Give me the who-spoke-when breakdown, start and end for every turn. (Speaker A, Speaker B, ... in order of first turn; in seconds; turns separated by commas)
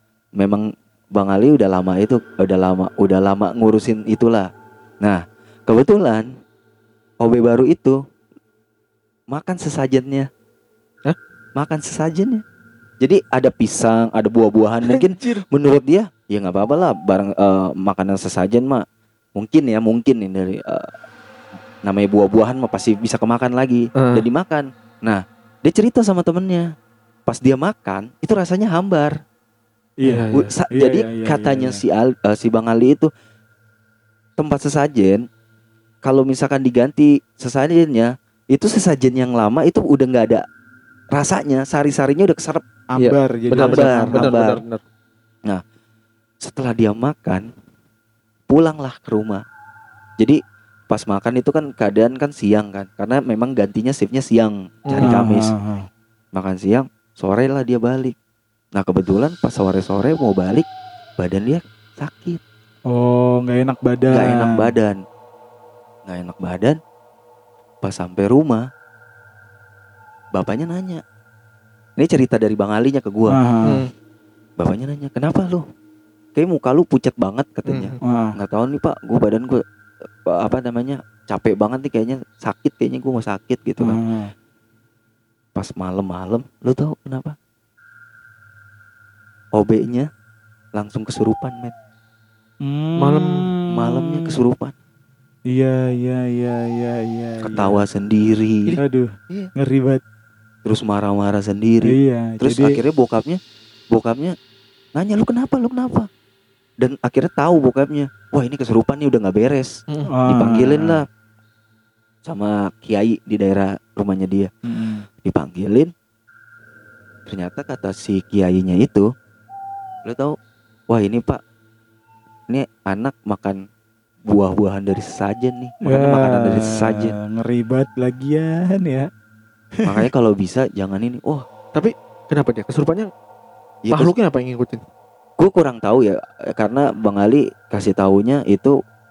Speaker A: 0.4-4.5, Speaker A: 5.0-6.3, Speaker A: 7.2-8.0, Speaker A: 9.3-10.3, Speaker A: 11.6-12.4, Speaker A: 13.0-18.8, Speaker B: 14.9-15.4, Speaker A: 19.4-20.9, Speaker A: 21.8-26.7, Speaker B: 24.0-24.2, Speaker A: 27.3-29.1, Speaker C: 30.0-31.8, Speaker B: 30.0-30.6, Speaker A: 30.3-33.1, Speaker A: 34.4-35.2, Speaker A: 36.0-40.4, Speaker A: 41.1-42.6, Speaker C: 42.9-44.4, Speaker B: 43.0-44.8, Speaker A: 43.5-44.6, Speaker A: 46.4-47.5, Speaker A: 48.5-49.4, Speaker A: 50.2-55.5, Speaker B: 54.9-55.2, Speaker C: 55.0-55.9, Speaker A: 56.3-58.1, Speaker A: 58.7-60.6, Speaker A: 61.2-62.4, Speaker C: 62.9-64.7, Speaker A: 64.1-65.0, Speaker A: 66.0-66.8, Speaker A: 67.8-68.7, Speaker A: 70.3-71.0, Speaker A: 72.0-73.4, Speaker C: 73.3-73.8, Speaker A: 74.6-75.6, Speaker A: 76.3-79.6, Speaker B: 77.7-78.0, Speaker C: 78.0-78.3, Speaker A: 80.2-84.0, Speaker C: 83.8-84.3, Speaker A: 85.5-87.3, Speaker A: 89.5-90.1, Speaker A: 90.7-91.7, Speaker C: 92.6-94.4, Speaker B: 93.0-93.5, Speaker A: 93.7-94.7, Speaker C: 95.5-97.8, Speaker A: 97.5-98.7, Speaker C: 98.8-100.0, Speaker A: 100.6-103.4, Speaker C: 101.8-102.8, Speaker A: 103.9-104.3, Speaker A: 104.9-106.1, Speaker A: 106.8-111.1, Speaker C: 110.1-111.0, Speaker A: 112.2-114.5, Speaker C: 114.7-115.0, Speaker A: 115.2-115.9, Speaker A: 117.3-119.1, Speaker A: 120.0-120.3, Speaker A: 120.9-121.4, Speaker A: 122.5-123.6, Speaker A: 124.3-127.1, Speaker C: 125.8-129.1, Speaker C: 129.8-130.1, Speaker A: 129.8-131.4, Speaker B: 131.7-133.1, Speaker A: 133.8-134.1, Speaker B: 133.9-134.8, Speaker A: 135.4-138.7